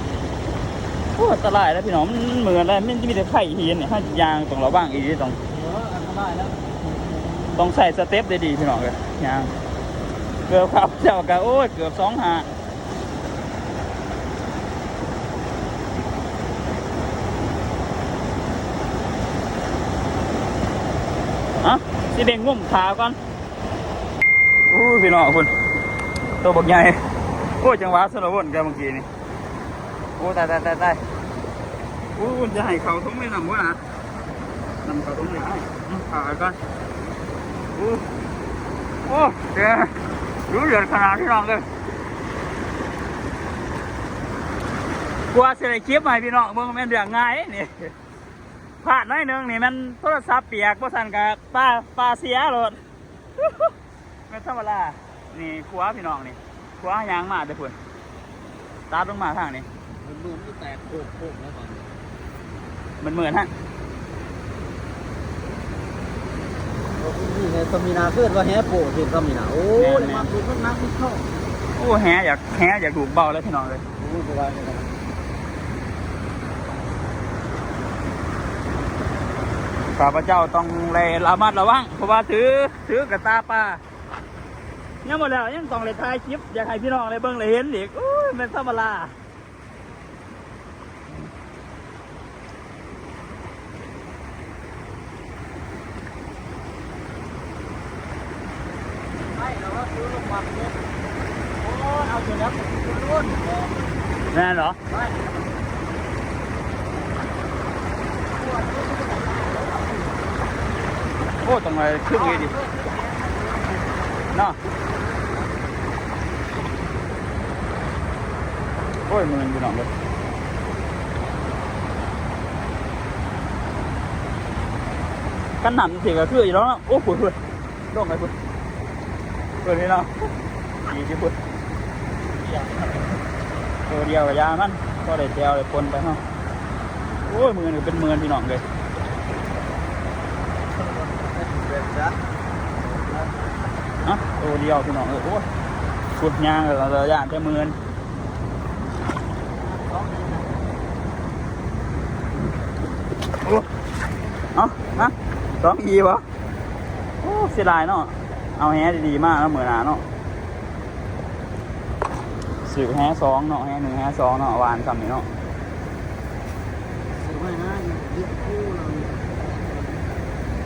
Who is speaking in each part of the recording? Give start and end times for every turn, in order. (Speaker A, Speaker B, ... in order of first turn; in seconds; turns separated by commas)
Speaker A: 1.2-5.4, Speaker B: 5.5-7.6, Speaker A: 7.5-9.5, Speaker A: 10.5-12.5, Speaker A: 21.6-23.2, Speaker A: 24.7-25.5, Speaker A: 26.4-27.0, Speaker A: 27.6-29.1, Speaker A: 30.2-31.0, Speaker A: 32.2-33.8, Speaker A: 34.9-36.6, Speaker A: 37.8-38.1, Speaker A: 39.1-40.0, Speaker A: 40.5-41.7, Speaker A: 45.3-47.9, Speaker A: 48.8-52.8, Speaker A: 53.4-53.7, Speaker A: 54.3-57.8, Speaker A: 58.9-59.7, Speaker B: 60.0-62.0, Speaker A: 63.0-63.5, Speaker B: 67.0-71.3, Speaker A: 69.8-70.3, Speaker A: 71.8-73.8, Speaker B: 74.0-75.0, Speaker A: 79.9-83.8, Speaker A: 85.0-89.1, Speaker B: 99.3-100.8, Speaker B: 101.6-103.9, Speaker A: 104.3-104.8, Speaker B: 104.9-105.5, Speaker B: 108.3-110.2, Speaker A: 111.4-112.5, Speaker B: 112.1-114.2, Speaker A: 119.1-119.9, Speaker A: 125.6-127.4, Speaker A: 127.9-128.3, Speaker A: 129.6-130.1, Speaker A: 130.9-131.4, Speaker B: 132.4-133.1, Speaker A: 133.9-136.2, Speaker A: 137.2-138.6, Speaker B: 140.7-142.2, Speaker B: 142.8-143.3, Speaker A: 144.1-145.5, Speaker A: 146.2-147.8, Speaker B: 149.6-150.7, Speaker A: 153.4-153.7, Speaker A: 154.5-156.2, Speaker A: 157.2-160.0, Speaker A: 162.6-165.3, Speaker B: 167.2-169.2